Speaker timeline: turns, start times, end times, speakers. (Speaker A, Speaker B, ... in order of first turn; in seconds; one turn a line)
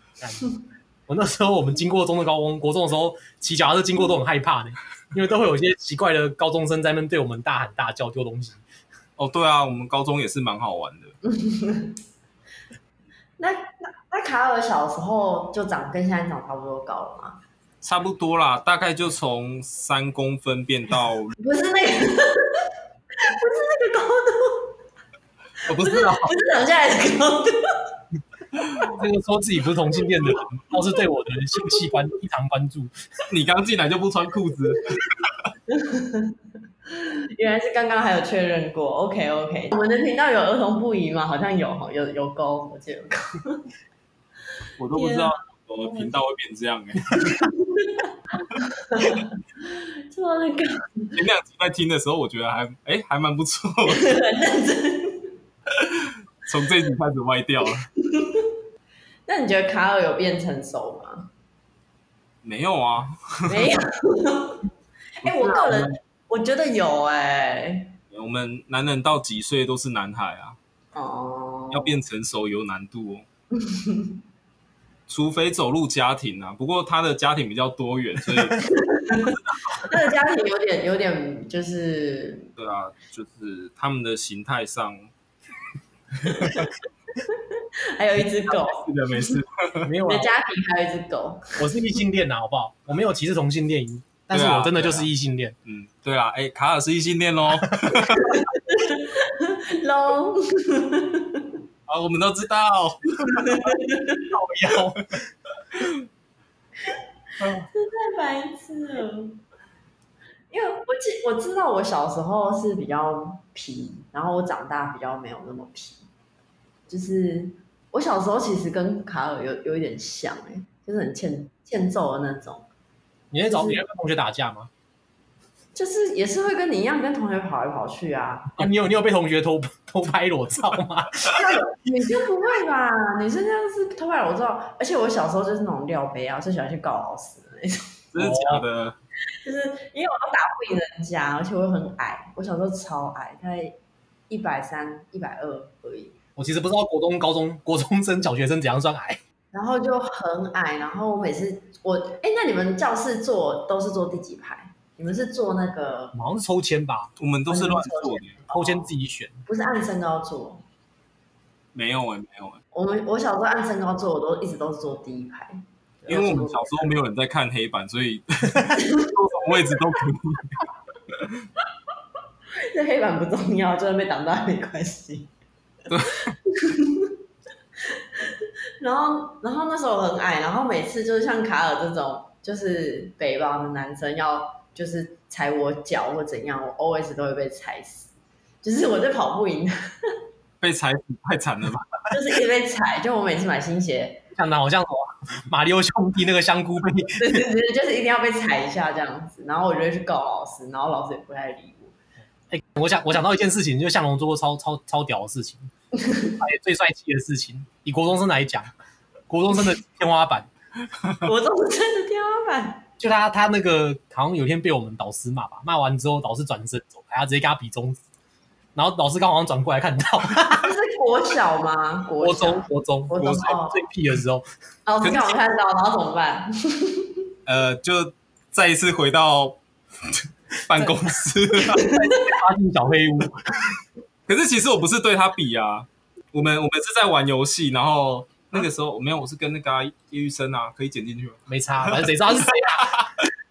Speaker A: 0.2-0.5
Speaker A: 1.1-8.6
Speaker B: 9.2-11.1
Speaker C: 11.2-11.9
Speaker C: 13.4-17.4
Speaker B: 17.8-21.3
Speaker C: 21.4-22.6
Speaker C: 23.2-24.7
Speaker B: 25.6-26.3
Speaker C: 25.7-27.6
Speaker A: 28.9-32.9
Speaker B: 33.3-35.4
Speaker C: 35.7-36.3
Speaker C: 36.9-43.6
Speaker B: 44.8-47.4
Speaker C: 44.9-46.1
Speaker C: 47.1-51.2
Speaker B: 51.1-54.1
Speaker C: 53.9-55.3
Speaker B: 55.8-57.9
Speaker C: 58.0-58.5
Speaker C: 59.3-61.3
Speaker B: 62.4-63.7
Speaker C: 63.5-64.6
Speaker C: 65.2-67.9
Speaker B: 65.2-65.9
Speaker B: 68.1-70.6
Speaker C: 70.9-72.0
Speaker B: 71.7-73.2
Speaker C: 73.5-74.1
Speaker B: 75.1-78.7
Speaker C: 78.6-82.5
Speaker B: 79.2-79.9
Speaker B: 82.6-85.1
Speaker C: 86.2-89.4
Speaker B: 86.3-86.6
Speaker B: 88.5-89.9
Speaker A: 89.8-90.3
Speaker C: 90.0-91.5
Speaker A: 91.6-95.5
Speaker B: 94.3-95.1
Speaker B: 95.6-98.4
Speaker C: 98.2-101.5
Speaker B: 101.9-103.7
Speaker C: 103.3-104.2
Speaker A: 104.2-105.2
Speaker C: 107.7-109.4
Speaker C: 110.5-116.0
Speaker C: 116.9-122.7
Speaker A: 123.3-124.7
Speaker C: 123.5-123.8
Speaker C: 125.7-128.7
Speaker A: 128.6-131.6
Speaker C: 131.3-137.9
Speaker B: 138.1-139.0
Speaker A: 138.2-138.6
Speaker C: 139.4-143.8
Speaker C: 144.3-146.1
Speaker A: 146.3-149.2
Speaker C: 149.5-156.2
Speaker A: 156.1-157.1
Speaker B: 157.2-158.4
Speaker C: 157.5-158.9
Speaker A: 158.5-159.3
Speaker C: 159.4-160.6
Speaker B: 161.7-162.6
Speaker C: 162.7-166.7
Speaker B: 166.1-171.4
Speaker C: 168.7-169.1
Speaker C: 172.7-175.3
Speaker B: 175.9-176.3
Speaker C: 176.4-177.1
Speaker C: 177.9-188.1
Speaker C: 188.6-189.7
Speaker B: 190.6-192.1
Speaker C: 192.1-194.2
Speaker A: 194.3-197.4
Speaker C: 197.2-201.9
Speaker A: 202.5-205.7
Speaker C: 206.0-206.3
Speaker A: 206.3-208.7
Speaker A: 209.3-210.5
Speaker C: 211.2-212.8
Speaker A: 213.0-218.0
Speaker A: 218.7-220.7
Speaker C: 220.6-223.8
Speaker A: 222.2-224.4
Speaker C: 224.8-227.1
Speaker B: 225.0-225.4
Speaker B: 227.4-231.9
Speaker C: 231.7-232.3
Speaker A: 231.9-233.7
Speaker B: 234.3-243.3
Speaker A: 241.5-243.1